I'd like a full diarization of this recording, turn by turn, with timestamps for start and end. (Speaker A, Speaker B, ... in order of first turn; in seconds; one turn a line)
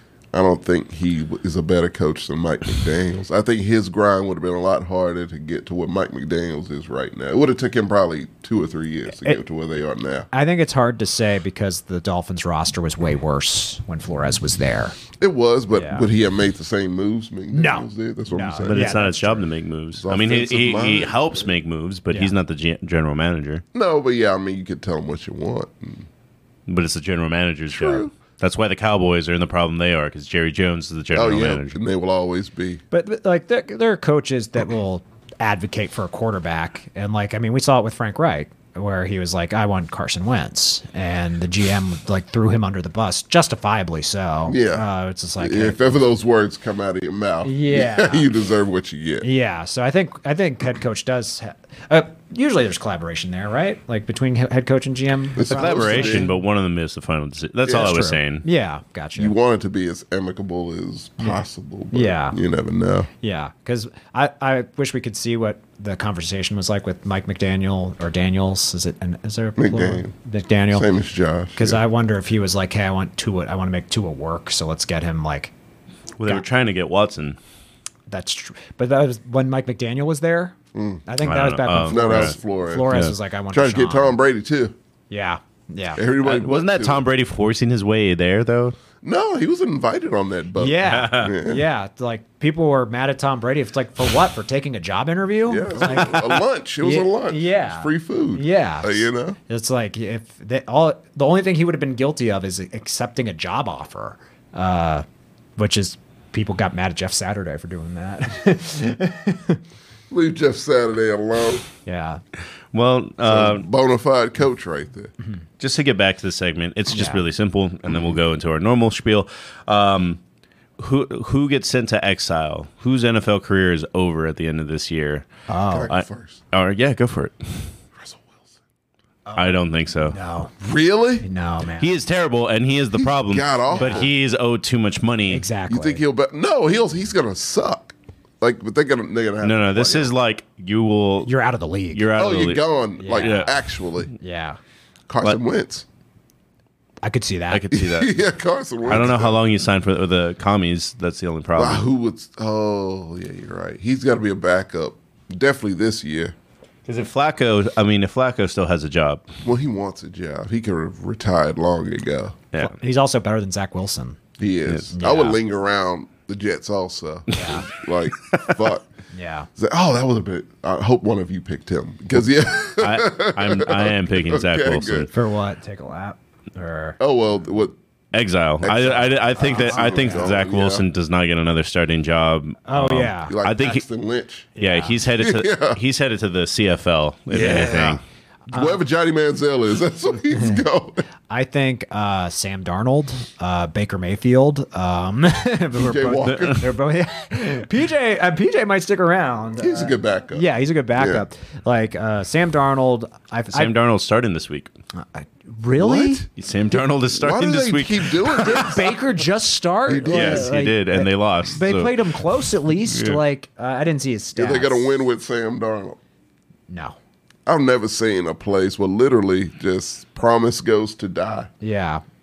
Speaker A: 0.3-10.3
Speaker B: 10.3-15.0
Speaker A: 15.2-19.0
Speaker B: 15.7-16.1
Speaker B: 17.5-19.5
Speaker C: 18.7-23.6
Speaker A: 20.0-21.5
Speaker A: 23.7-26.1
Speaker C: 26.7-31.8
Speaker A: 27.7-28.1
Speaker A: 31.1-32.8
Speaker B: 32.9-45.8
Speaker A: 44.5-44.9
Speaker A: 45.4-49.3
Speaker B: 47.4-48.3
Speaker B: 49.2-56.3
Speaker A: 55.4-56.3
Speaker C: 55.5-58.5
Speaker A: 57.6-58.0
Speaker B: 57.7-59.3
Speaker A: 59.2-63.1
Speaker B: 61.2-62.4
Speaker B: 63.2-70.9
Speaker A: 69.6-70.1
Speaker A: 70.7-71.8
Speaker B: 71.6-75.5
Speaker C: 76.2-77.4
Speaker B: 78.1-84.2
Speaker A: 80.7-81.0
Speaker C: 81.2-82.4
Speaker A: 81.8-83.0
Speaker C: 82.9-83.1
Speaker A: 83.5-84.8
Speaker B: 85.1-86.0
Speaker A: 86.0-87.0
Speaker C: 86.2-88.8
Speaker A: 89.0-91.6
Speaker B: 90.6-105.0
Speaker C: 90.8-91.3
Speaker A: 95.5-99.4
Speaker B: 105.6-109.6
Speaker A: 110.1-111.7
Speaker B: 111.8-112.2
Speaker C: 112.7-113.7
Speaker A: 113.2-115.1
Speaker C: 115.6-120.2
Speaker B: 116.9-117.2
Speaker C: 120.8-125.3
Speaker B: 125.5-125.9
Speaker A: 125.7-126.4
Speaker C: 125.9-127.7
Speaker A: 128.0-128.4
Speaker B: 129.3-130.5
Speaker C: 129.4-130.2
Speaker A: 130.6-131.3
Speaker B: 131.2-132.0
Speaker C: 131.8-135.4
Speaker A: 132.9-134.1
Speaker B: 133.7-134.1
Speaker B: 135.3-136.0
Speaker A: 135.7-140.1
Speaker C: 139.4-141.3
Speaker B: 141.2-142.1
Speaker C: 141.9-143.5
Speaker A: 142.2-144.1
Speaker B: 143.0-143.6
Speaker B: 144.1-144.6
Speaker A: 145.1-145.9
Speaker B: 147.0-147.7
Speaker C: 147.5-148.2
Speaker A: 147.7-149.4
Speaker C: 148.9-151.8
Speaker A: 151.6-156.3
Speaker C: 156.9-159.3
Speaker A: 159.4-162.4
Speaker B: 162.6-164.2
Speaker A: 164.4-168.9
Speaker C: 164.7-164.9
Speaker B: 164.9-165.4
Speaker B: 167.3-167.7
Speaker C: 168.2-168.6
Speaker B: 169.1-169.5
Speaker A: 169.6-175.1
Speaker C: 172.8-175.1
Speaker B: 175.1-177.0
Speaker A: 177.0-177.8
Speaker C: 178.1-183.8
Speaker A: 178.6-180.8
Speaker B: 179.4-180.4
Speaker B: 182.7-183.3
Speaker A: 183.3-184.5
Speaker B: 184.6-185.0
Speaker C: 184.6-188.0
Speaker A: 185.2-185.8
Speaker A: 187.3-188.0
Speaker B: 188.5-188.8
Speaker A: 188.5-191.0
Speaker B: 191.3-203.7
Speaker A: 195.8-196.7
Speaker C: 196.2-196.6
Speaker A: 199.6-201.2
Speaker C: 203.5-204.7
Speaker B: 204.9-206.2
Speaker A: 205.8-206.3
Speaker C: 206.4-208.7
Speaker A: 207.1-208.9
Speaker B: 208.4-215.0
Speaker A: 209.9-210.5
Speaker C: 210.1-212.0
Speaker C: 212.9-213.2
Speaker A: 214.4-216.0
Speaker B: 216.7-217.0
Speaker A: 217.5-221.5
Speaker B: 221.6-222.0